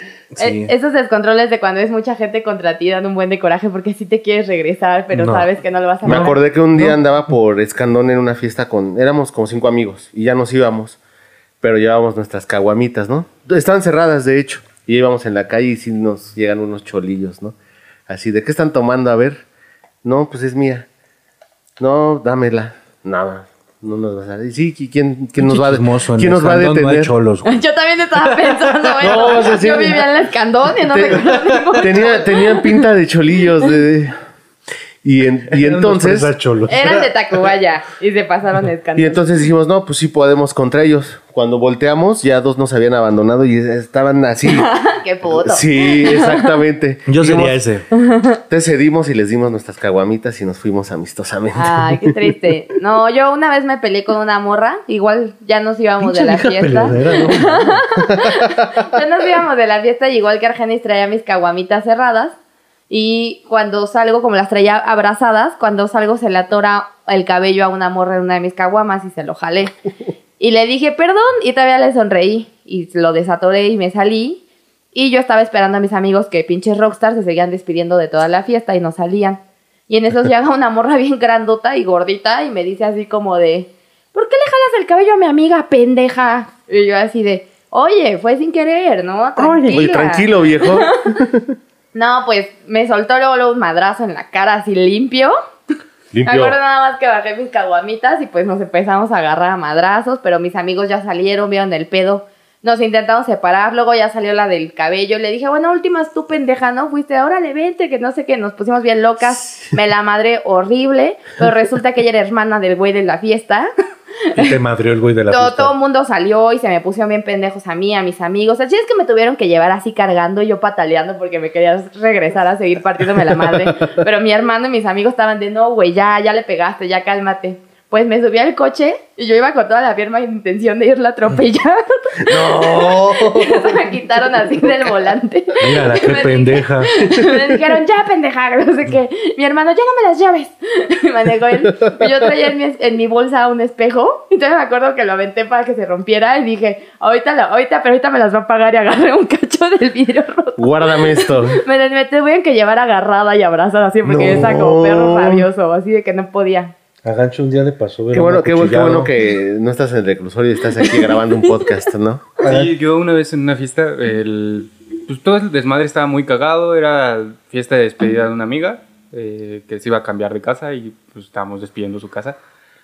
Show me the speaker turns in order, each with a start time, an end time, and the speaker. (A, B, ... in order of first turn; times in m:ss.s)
0:00.3-0:00.7 A
0:00.4-0:06.4 B
0:05.1-0:05.5 A
0:06.0-0:07.0 A
0:06.0-0:11.0 C
0:11.6-0:17.6 C
0:18.1-0:19.4 C
0:20.0-0:20.9 C
0:21.8-0:27.1 C
0:25.4-0:27.6 A
0:27.4-0:32.8 B
0:28.2-0:29.6 A
0:29.0-0:30.0 C
0:30.9-0:34.1 C
0:35.0-0:36.3 C
0:35.5-0:37.1 A
0:36.7-0:39.2 B
0:39.0-0:44.7 C
0:44.5-0:46.5 B
0:45.3-0:47.6 C
0:47.0-0:47.8 A
0:47.9-0:48.4 B
0:48.5-0:52.0 C
0:51.5-1:02.4 B
0:56.0-0:57.9 A
1:02.9-1:09.7 B
1:10.4-1:14.4 B
1:14.9-1:31.1 B
1:29.4-1:29.9 A
1:29.6-1:31.4 C
1:31.9-1:35.3 B
1:36.1-1:36.6 C
1:36.2-1:53.7 B
1:54.2-1:54.5 B
1:54.3-1:55.7 A
1:55.3-2:36.7 B
2:12.3-2:13.6 C
2:15.6-2:17.1 A
2:30.6-2:31.6 C
2:34.0-2:35.5 C
2:37.0-2:39.1 A
2:38.1-2:42.3 C
2:42.4-2:52.4 D
2:42.4-2:42.7 A